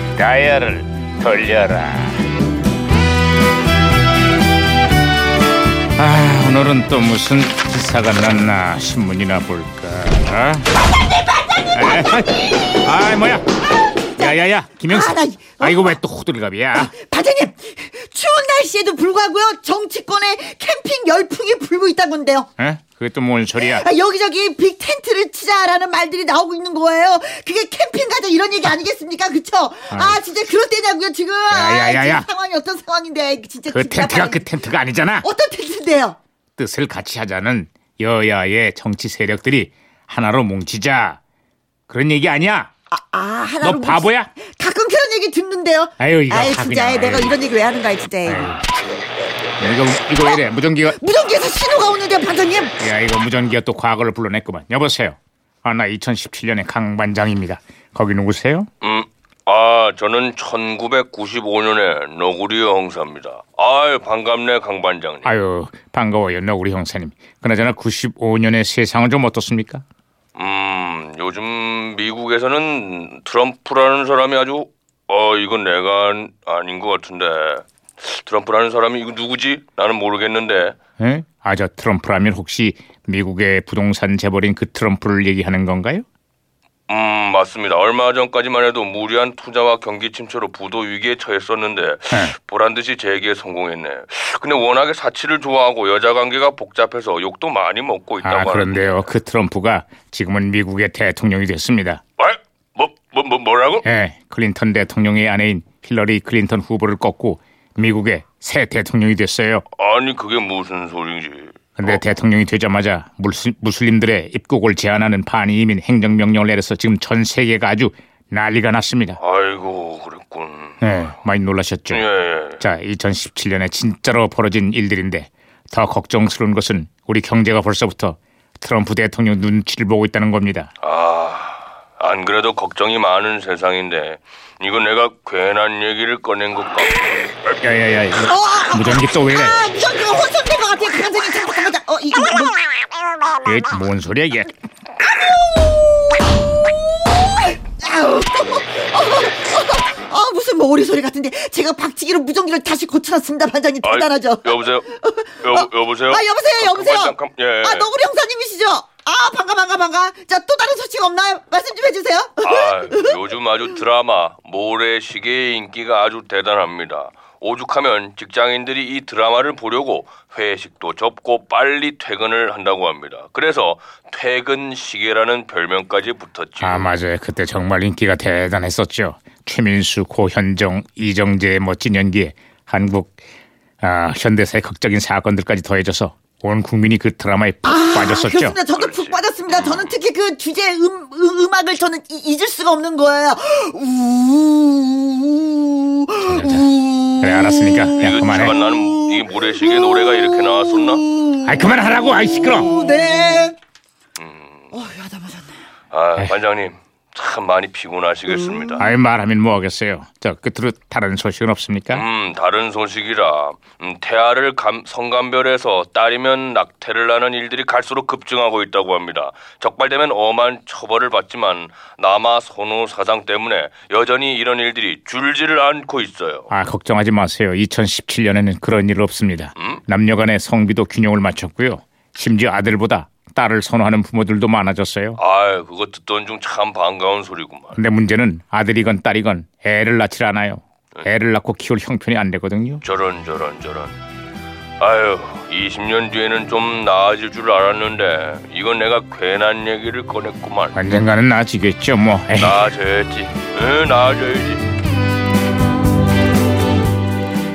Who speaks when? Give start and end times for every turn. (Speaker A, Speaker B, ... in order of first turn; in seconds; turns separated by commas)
Speaker A: 0.2-2.2, Speaker A: 6.0-10.7, Speaker B: 11.1-12.2, Speaker A: 11.7-13.4, Speaker B: 14.0-16.0, Speaker A: 14.2-16.9, Speaker B: 16.7-22.5, Speaker A: 22.6-23.9, Speaker B: 23.6-34.5, Speaker A: 29.9-30.2, Speaker A: 31.5-32.3, Speaker A: 33.7-35.2, Speaker B: 35.2-36.2, Speaker A: 36.6-41.2, Speaker A: 41.9-42.7, Speaker B: 42.9-48.5, Speaker A: 43.6-44.3, Speaker A: 46.0-47.4, Speaker A: 48.2-48.6, Speaker A: 49.6-51.0, Speaker B: 50.2-52.7, Speaker A: 52.8-58.7, Speaker C: 58.8-65.3, Speaker A: 65.2-69.8, Speaker C: 70.3-80.8, Speaker A: 81.0-86.1, Speaker C: 86.9-99.1, Speaker A: 98.2-102.0, Speaker C: 102.2-103.8, Speaker A: 103.8-109.6, Speaker C: 109.8-112.0, Speaker A: 111.8-119.2, Speaker C: 119.2-121.0, Speaker A: 120.8-122.1, Speaker C: 121.9-122.6, Speaker A: 122.6-130.7, Speaker C: 130.8-137.4, Speaker A: 137.6-139.6, Speaker B: 138.2-142.6, Speaker A: 143.4-144.5, Speaker B: 145.2-145.7, Speaker B: 147.7-163.2, Speaker C: 153.8-157.9, Speaker C: 162.4-176.9, Speaker A: 176.6-183.2, Speaker A: 183.8-188.6, Speaker B: 187.6-203.6, Speaker C: 188.8-190.0, Speaker A: 196.2-196.7, Speaker A: 197.2-198.6, Speaker C: 198.0-201.1, Speaker A: 201.4-202.7, Speaker C: 204.2-204.7, Speaker B: 204.7-205.6, Speaker C: 205.9-208.9, Speaker B: 208.3-208.9, Speaker A: 208.8-212.1, Speaker C: 211.9-226.5, Speaker A: 226.5-235.2, Speaker C: 235.2-237.8, Speaker A: 237.8-242.8, Speaker C: 242.8-244.0, Speaker C: 244.8-250.8, Speaker A: 250.8-252.6, Speaker C: 252.4-254.6